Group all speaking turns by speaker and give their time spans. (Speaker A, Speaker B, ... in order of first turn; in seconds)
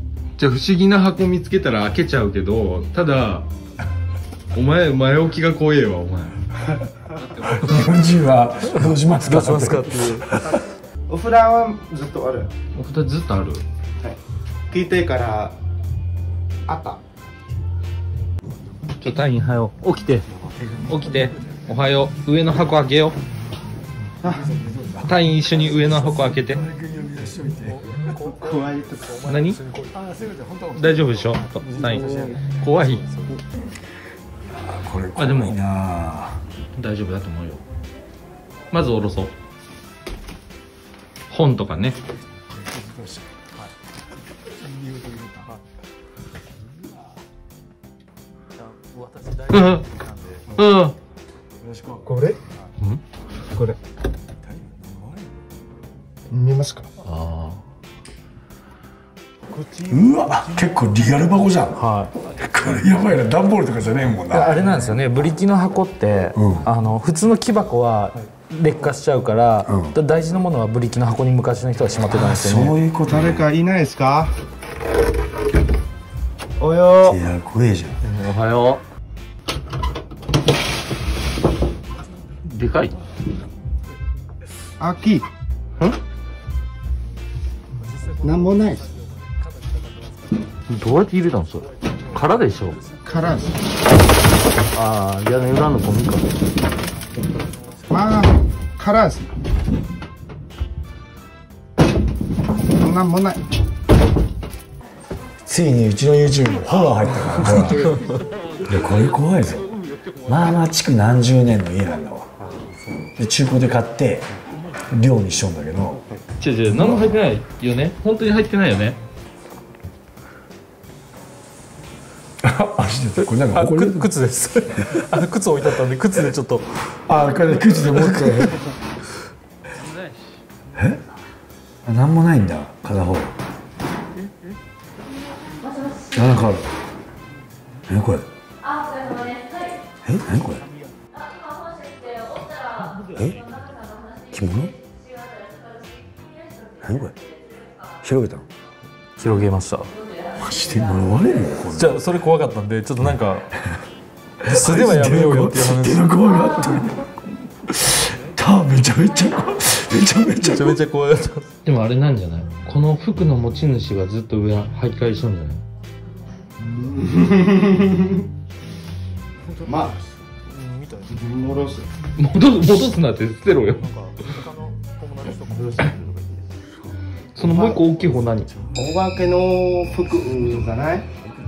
Speaker A: 0.4-3.5, 4.5-6.4, 7.3-8.0, 12.8-13.6, 19.0-20.3, 20.9-23.2, 25.1-26.6, 29.3-29.6, 30.8-33.0, 35.2-35.5, 36.8-37.6, 38.7-39.3, 41.3-42.0, 49.5-49.9, 50.6-50.9, 78.2-78.8, 82.5-83.0, 90.7-92.8, 94.8-96.3, 116.4-119.0, 161.7-165.6, 172.2-173.8, 177.4-178.5
Speaker B: 7.4-10.6, 20.5-20.9, 24.2-28.0, 29.3-32.5, 34.5-36.4, 42.4-43.3, 44.5-45.6, 51.6-52.1, 54.5-55.1, 59.9-61.8, 62.4-64.7, 66.3-66.7, 69.7-70.0, 72.1-73.4, 77.0-78.0, 105.5-108.0, 108.7-109.7, 110.2-112.3, 113.2-114.3, 114.9-116.1, 116.7-117.1, 122.4-124.1, 127.1-128.6, 130.8-131.0, 131.8-133.3, 136.1-136.7, 137.9-138.3, 140.1-140.7, 143.1-143.6, 144.3-144.8, 146.8-147.2, 148.0-148.5, 150.3-152.0, 154.4-157.1, 157.7-160.8
Speaker C: 9.2-10.4, 28.0-28.4, 49.3-50.0, 50.6-50.9, 57.1-57.6, 61.8-62.1, 64.3-72.8, 123.2-126.7, 127.8-128.6, 149.2-149.9, 151.7-153.5, 154.5-156.1, 160.4-161.5, 170.5-171.1, 173.9-175.9
Speaker D: 11.1-12.5, 14.7-15.6, 16.7-17.0, 28.3-29.3, 52.1-52.4, 56.3-56.9, 59.5-60.6, 73.1-74.3, 76.6-77.2, 84.8-85.3, 88.2-88.9, 93.0-93.7, 97.9-99.3, 102.7-103.4, 166.6-168.3, 169.6-170.0, 171.1-171.9, 177.4-178.0, 178.7-181.1
Speaker E: 135.4-136.3, 138.6-139.8, 141.2-144.1, 145.2-146.6